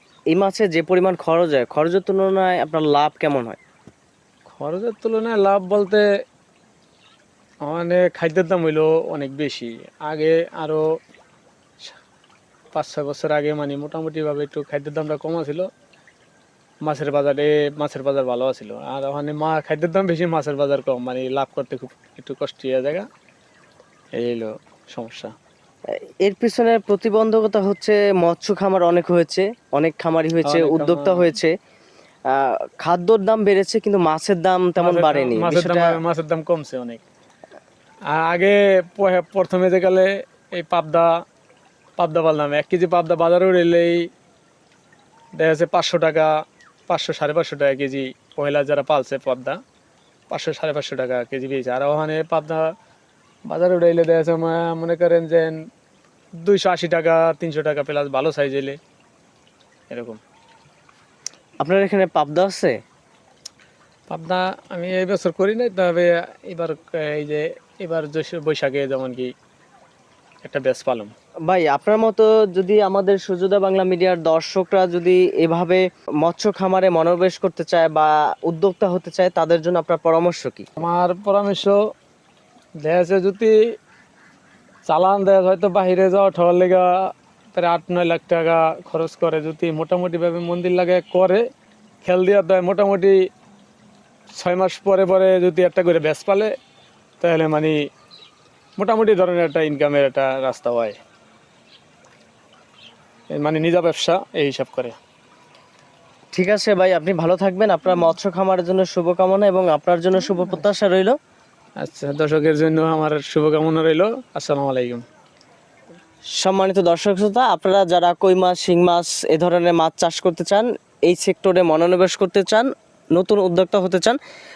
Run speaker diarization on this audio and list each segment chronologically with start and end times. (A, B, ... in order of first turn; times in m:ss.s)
0:00.3-0:03.6 A
0:04.5-0:06.0 B
0:07.6-0:10.8 B
0:12.7-0:15.7 B
0:16.8-0:23.1 B
0:24.1-0:25.3 B
0:26.0-0:31.5 A
0:30.4-0:31.3 B
0:32.3-0:36.0 A
0:34.8-0:37.0 B
0:38.1-0:41.1 B
0:42.0-0:44.1 B
0:45.4-0:46.3 B
0:46.9-0:49.6 B
0:50.3-0:52.7 B
0:53.5-0:55.5 B
0:56.4-0:58.8 B
0:59.9-1:00.2 B
1:01.6-1:02.8 A
1:04.1-1:09.3 B
1:10.4-1:11.1 B
1:11.4-1:20.6 A
1:20.8-1:21.8 B
1:22.8-1:23.6 B
1:24.8-1:31.4 B
1:32.0-1:33.2 B
1:34.3-1:36.5 B
1:37.2-1:37.7 B
1:38.8-1:41.0 B
1:43.3-1:45.0 B
1:46.3-1:51.2 A
1:51.8-1:55.0 B
1:56.4-2:04.2 A